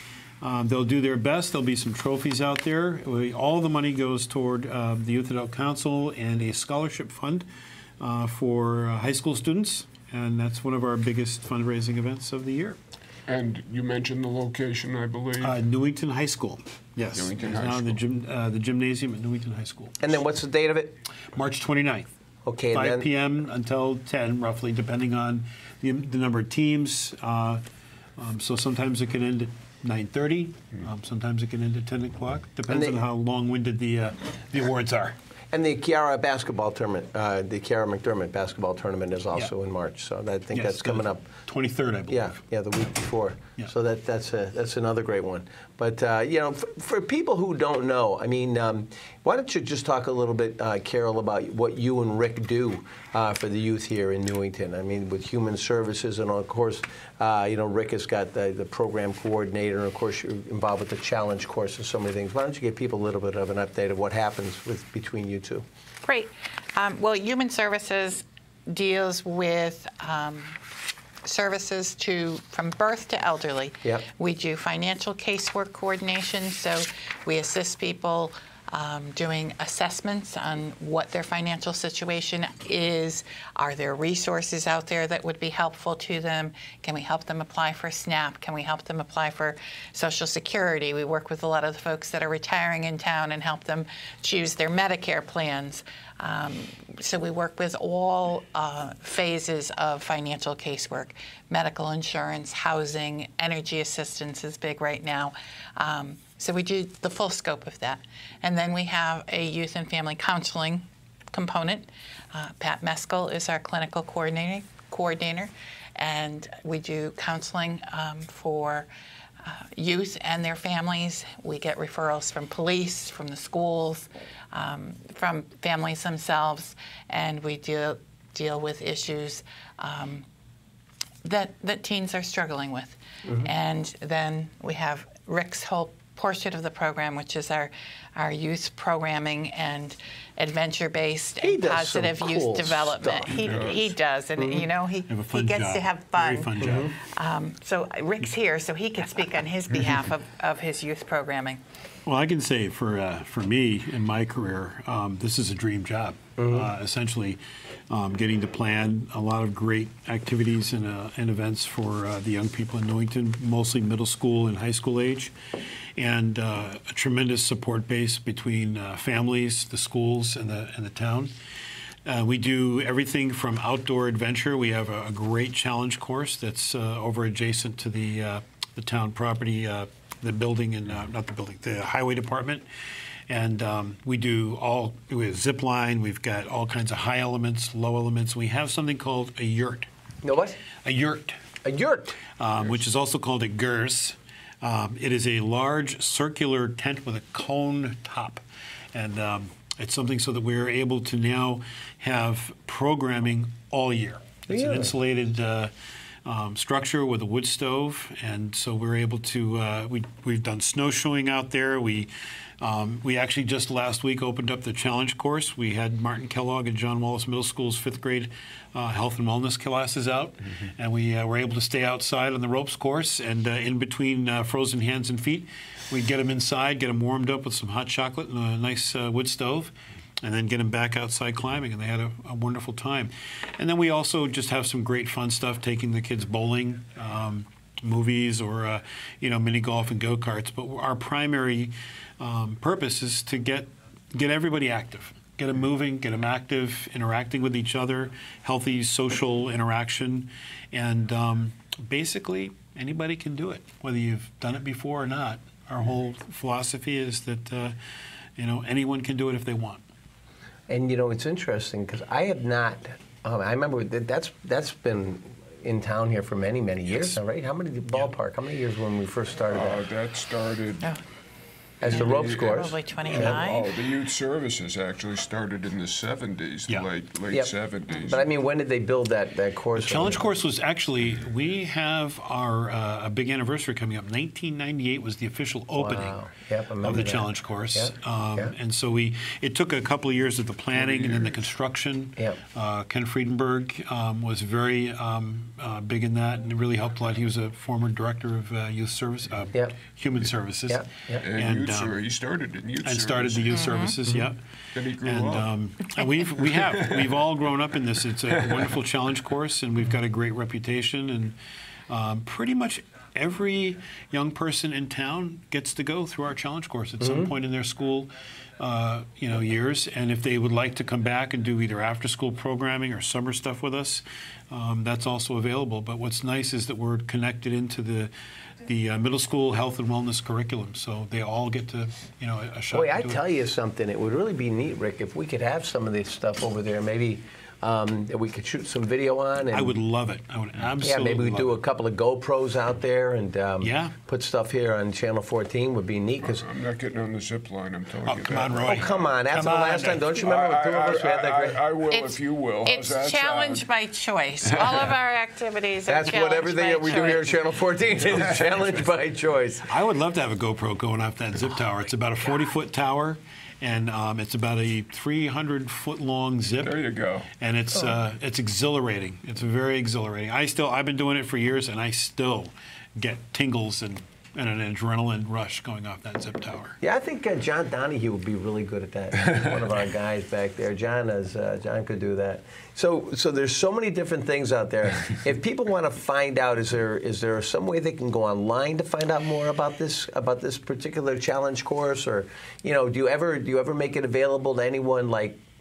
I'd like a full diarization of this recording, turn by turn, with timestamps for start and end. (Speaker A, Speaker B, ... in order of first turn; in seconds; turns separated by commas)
Speaker A: 0.4-7.5, Speaker A: 8.0-12.8, Speaker B: 13.3-15.6, Speaker A: 15.4-20.0, Speaker B: 17.1-18.0, Speaker C: 20.0-21.0, Speaker A: 21.3-22.1, Speaker C: 22.4-23.1, Speaker A: 22.7-27.6, Speaker A: 28.2-35.2, Speaker C: 32.7-33.0, Speaker C: 35.5-41.3, Speaker A: 40.5-42.3, Speaker C: 42.1-65.7, Speaker D: 66.0-70.6, Speaker D: 71.2-118.9, Speaker D: 119.4-130.3, Speaker D: 131.2-151.6, Speaker C: 141.4-143.8, Speaker B: 143.3-143.8, Speaker C: 144.4-144.7, Speaker A: 145.1-146.9, Speaker C: 146.6-146.9, Speaker A: 152.1-165.3, Speaker C: 156.4-156.7, Speaker A: 166.0-171.3, Speaker A: 172.1-182.7, Speaker A: 183.3-189.9, Speaker C: 190.2-190.6, Speaker A: 190.8-191.4, Speaker C: 191.6-192.2, Speaker A: 192.4-205.7, Speaker C: 204.5-204.9, Speaker A: 206.2-257.8, Speaker A: 258.4-259.8, Speaker C: 260.7-269.8, Speaker B: 269.5-270.9, Speaker C: 271.8-273.4, Speaker B: 271.8-278.2, Speaker D: 271.9-273.7, Speaker C: 277.3-280.3, Speaker A: 279.8-286.2, Speaker C: 285.8-288.5, Speaker A: 286.8-301.9, Speaker B: 290.7-291.4, Speaker C: 300.7-301.2, Speaker B: 301.2-303.8, Speaker A: 302.8-304.4, Speaker D: 303.5-303.9, Speaker B: 304.7-305.5, Speaker A: 305.0-311.4, Speaker B: 306.4-307.1, Speaker A: 311.9-328.1, Speaker C: 317.0-317.3, Speaker A: 328.6-333.2, Speaker C: 332.7-339.8, Speaker A: 339.5-341.6, Speaker C: 340.8-346.4, Speaker A: 343.6-343.9, Speaker B: 346.2-349.1, Speaker A: 348.1-350.1, Speaker C: 348.6-351.6, Speaker B: 350.1-353.7, Speaker D: 351.9-357.4, Speaker B: 354.5-354.9, Speaker C: 355.9-359.7, Speaker B: 358.0-358.8, Speaker A: 359.7-366.8, Speaker B: 366.6-367.3, Speaker A: 367.4-376.8, Speaker C: 376.8-395.4